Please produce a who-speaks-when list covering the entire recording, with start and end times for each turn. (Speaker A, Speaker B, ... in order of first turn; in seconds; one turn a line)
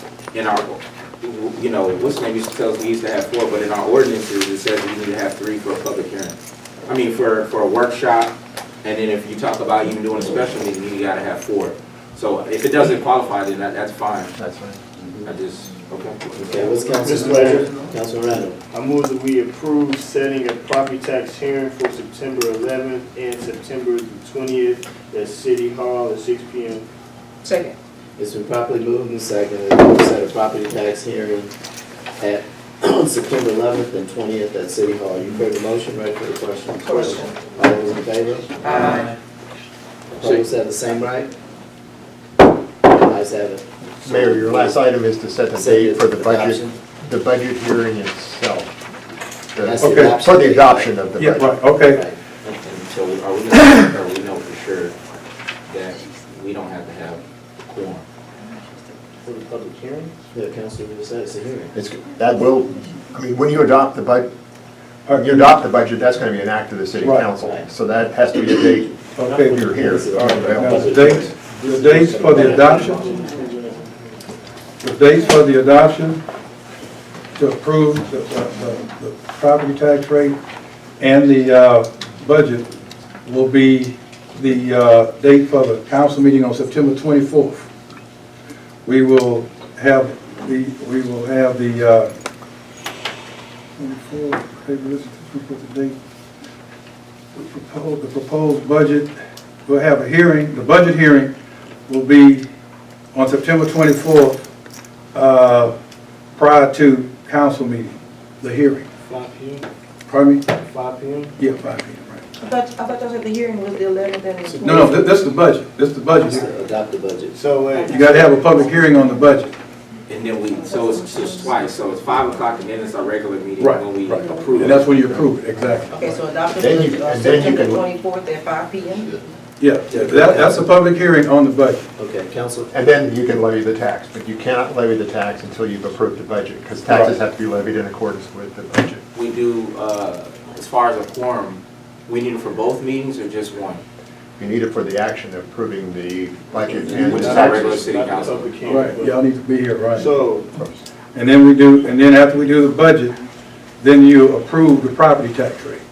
Speaker A: 0.3-14.3
Speaker B: 14.3-14.8
Speaker C: 15.0-15.3
Speaker A: 15.2-16.6
Speaker C: 16.3-18.6
Speaker D: 16.9-17.7
Speaker D: 18.7-26.9
Speaker E: 27.4-27.7
Speaker C: 28.2-31.5
Speaker C: 32.2-38.8
Speaker E: 36.8-37.5
Speaker E: 38.6-39.1
Speaker C: 40.2-41.3
Speaker C: 42.8-44.8
Speaker B: 44.0-48.7
Speaker C: 45.5-46.8
Speaker B: 49.5-51.6
Speaker C: 49.6-52.2
Speaker F: 49.8-50.1
Speaker F: 51.2-52.0
Speaker A: 52.4-54.9
Speaker A: 55.7-58.0
Speaker D: 59.2-60.3
Speaker C: 60.3-61.7
Speaker B: 61.7-64.3
Speaker F: 65.1-65.6
Speaker B: 65.1-70.9
Speaker F: 67.0-67.3
Speaker C: 67.4-67.7
Speaker F: 69.1-73.2
Speaker D: 69.2-69.6
Speaker C: 69.8-72.8
Speaker D: 70.7-74.3
Speaker F: 74.8-76.2
Speaker F: 77.3-80.4
Speaker F: 81.0-82.7
Speaker F: 83.2-87.7
Speaker F: 88.8-92.1
Speaker F: 93.8-96.0
Speaker F: 97.3-99.1
Speaker F: 99.7-101.3
Speaker F: 101.9-102.5
Speaker F: 103.1-104.4
Speaker F: 105.1-105.7
Speaker F: 106.3-108.8
Speaker D: 109.0-109.7
Speaker F: 110.1-110.5
Speaker D: 110.5-111.3
Speaker F: 111.4-112.2
Speaker E: 112.4-115.0
Speaker D: 114.5-114.9
Speaker F: 114.6-116.5
Speaker C: 116.3-117.4
Speaker D: 117.3-118.4
Speaker E: 117.7-119.2
Speaker F: 117.9-119.5
Speaker A: 120.1-125.2
Speaker E: 120.6-121.6
Speaker F: 123.6-123.9
Speaker C: 124.1-125.2
Speaker F: 124.6-126.2
Speaker E: 125.9-129.2
Speaker B: 126.6-127.8
Speaker F: 129.6-131.8
Speaker C: 129.9-130.7
Speaker C: 132.0-132.7
Speaker B: 132.7-139.0
Speaker F: 136.9-137.2
Speaker A: 139.1-143.8
Speaker B: 144.4-147.8
Speaker D: 146.9-149.2
Speaker A: 146.9-148.9
Speaker F: 148.7-150.2
Speaker D: 149.9-150.5
Speaker F: 151.1-153.2
Speaker F: 153.8-155.8